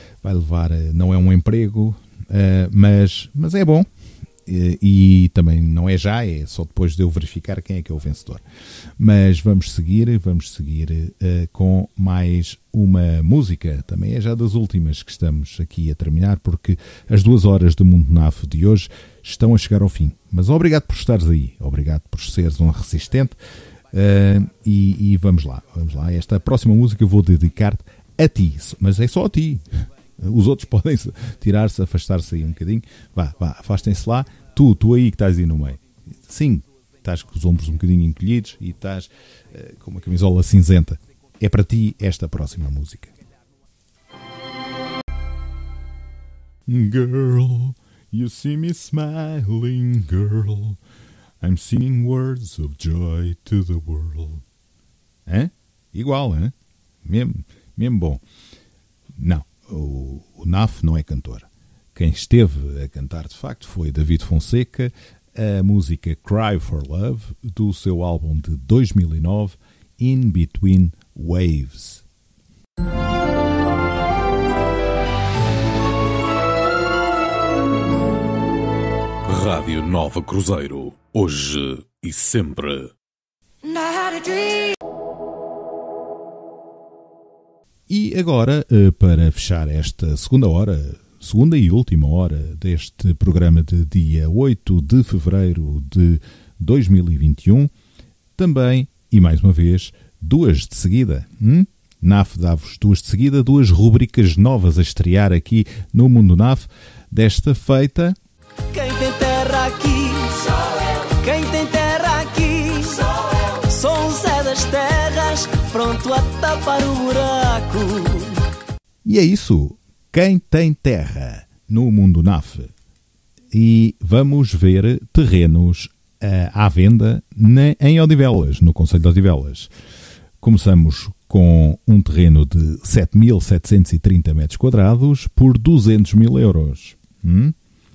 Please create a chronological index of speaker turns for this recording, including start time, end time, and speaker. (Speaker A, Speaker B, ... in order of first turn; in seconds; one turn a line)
Speaker A: 0.2-3.9
Speaker A: 4.5-8.4
Speaker A: 9.0-23.4
Speaker A: 23.9-43.1
Speaker A: 46.7-50.8
Speaker A: 51.4-54.4
Speaker A: 55.3-58.2
Speaker A: 59.2-72.0
Speaker B: 79.2-82.9
Speaker C: 83.8-84.5
Speaker A: 87.9-97.7
Speaker A: 98.4-108.2
Speaker C: 108.7-118.4
Speaker A: 119.0-122.7
Speaker A: 123.5-129.7
Speaker A: 130.4-137.6